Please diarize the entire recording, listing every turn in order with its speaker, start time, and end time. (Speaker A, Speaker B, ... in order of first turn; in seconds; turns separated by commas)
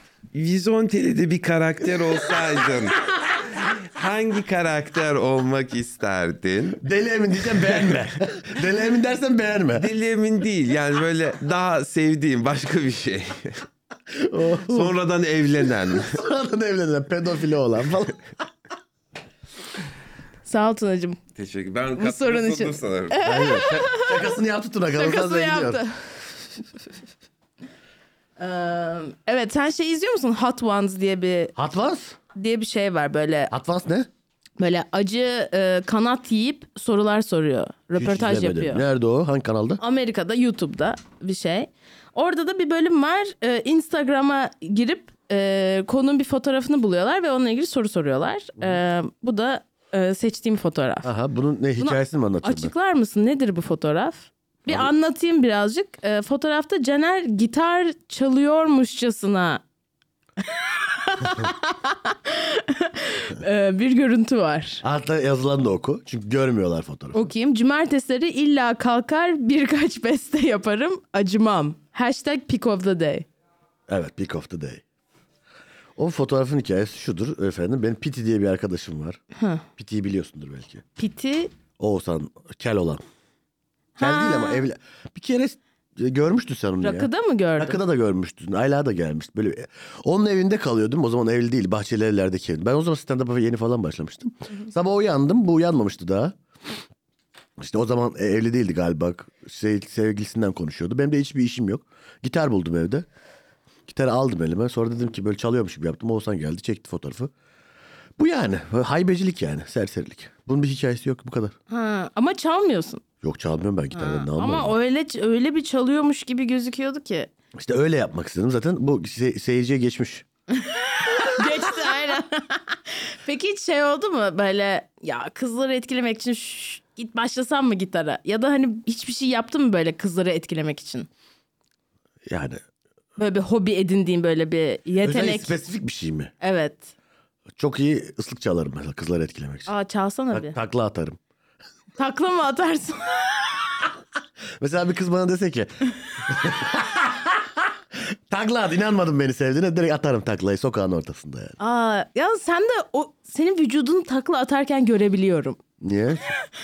Speaker A: 0.3-6.8, Speaker B: 6.8-9.9, Speaker A: 7.6-8.1, Speaker A: 9.7-13.7, Speaker B: 14.1-14.9, Speaker A: 14.7-16.2, Speaker B: 16.0-18.2, Speaker C: 20.4-21.2, Speaker A: 21.4-23.2, Speaker C: 22.0-24.3, Speaker B: 23.2-25.8, Speaker C: 24.9-26.2, Speaker C: 28.4-31.5, Speaker B: 31.6-32.2, Speaker C: 32.4-33.5, Speaker B: 33.5-34.1, Speaker C: 34.6-38.9, Speaker B: 38.0-39.8, Speaker C: 39.8-51.1, Speaker B: 51.0-52.7, Speaker C: 51.8-59.6, Speaker C: 60.5-64.8, Speaker B: 64.8-67.3, Speaker C: 67.1-73.3, Speaker B: 73.9-74.8, Speaker B: 76.0-79.2, Speaker C: 79.3-79.7, Speaker B: 79.8-80.8, Speaker C: 81.0-81.5, Speaker B: 81.8-83.0, Speaker C: 84.0-84.6, Speaker B: 84.0-96.3, Speaker C: 86.8-87.8, Speaker B: 97.6-103.1, Speaker B: 103.9-107.3, Speaker B: 108.2-111.5, Speaker C: 111.7-113.0, Speaker B: 113.2-114.7, Speaker C: 114.0-117.3, Speaker B: 117.5-120.2, Speaker C: 120.5-131.1, Speaker B: 132.3-132.6, Speaker C: 133.2-135.6, Speaker B: 135.0-136.3, Speaker C: 136.4-136.9, Speaker B: 137.6-139.7, Speaker C: 139.7-140.6, Speaker B: 140.3-141.2, Speaker C: 142.0-143.6, Speaker B: 144.6-151.6, Speaker C: 151.6-155.6, Speaker B: 155.8-156.3